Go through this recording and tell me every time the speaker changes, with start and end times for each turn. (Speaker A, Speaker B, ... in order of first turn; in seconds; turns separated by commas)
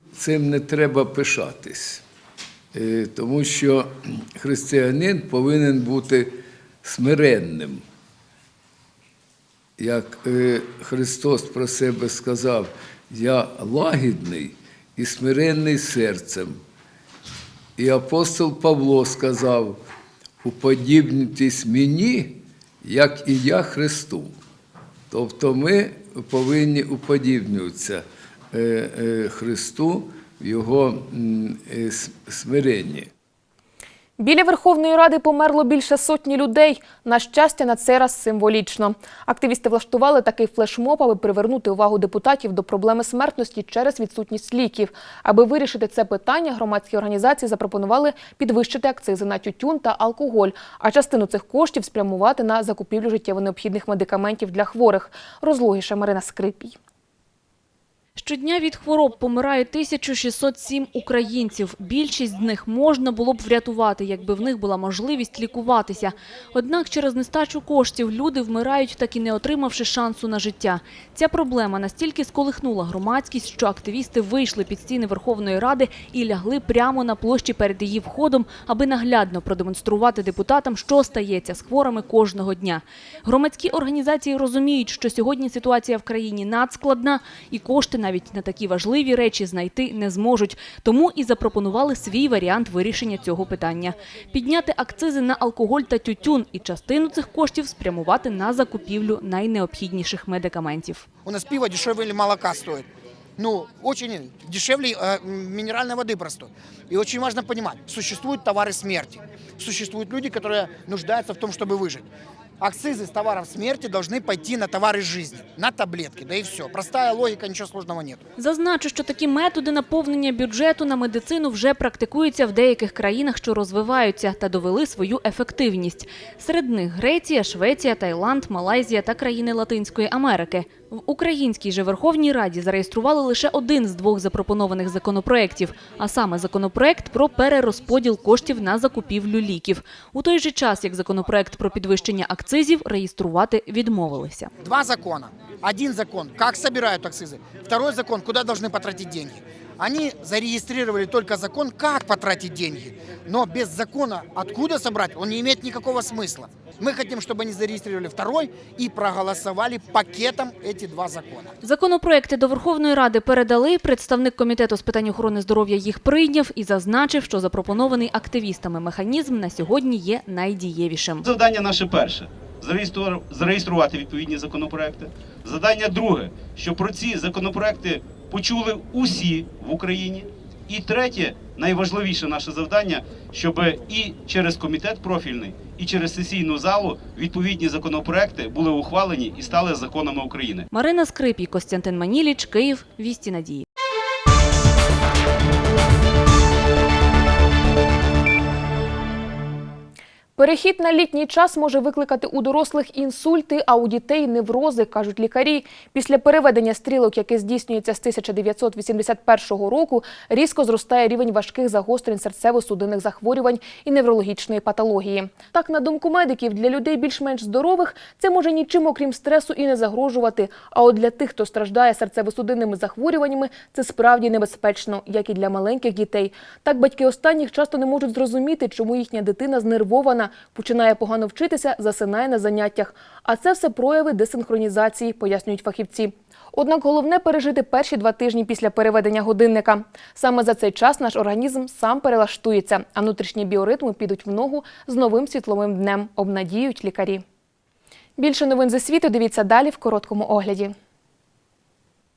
Speaker A: 0.1-2.0, Speaker A: 2.7-7.8, Speaker A: 9.8-16.6, Speaker A: 17.8-19.8, Speaker A: 20.4-24.3, Speaker A: 25.1-33.1, Speaker B: 34.2-56.7, Speaker C: 58.2-101.0, Speaker D: 101.2-112.1, Speaker D: 112.6-118.2, Speaker C: 118.4-144.5, Speaker D: 144.6-161.5, Speaker C: 161.6-171.2, Speaker E: 171.2-190.7, Speaker C: 190.7-193.6, Speaker B: 200.4-247.2, Speaker B: 248.2-250.7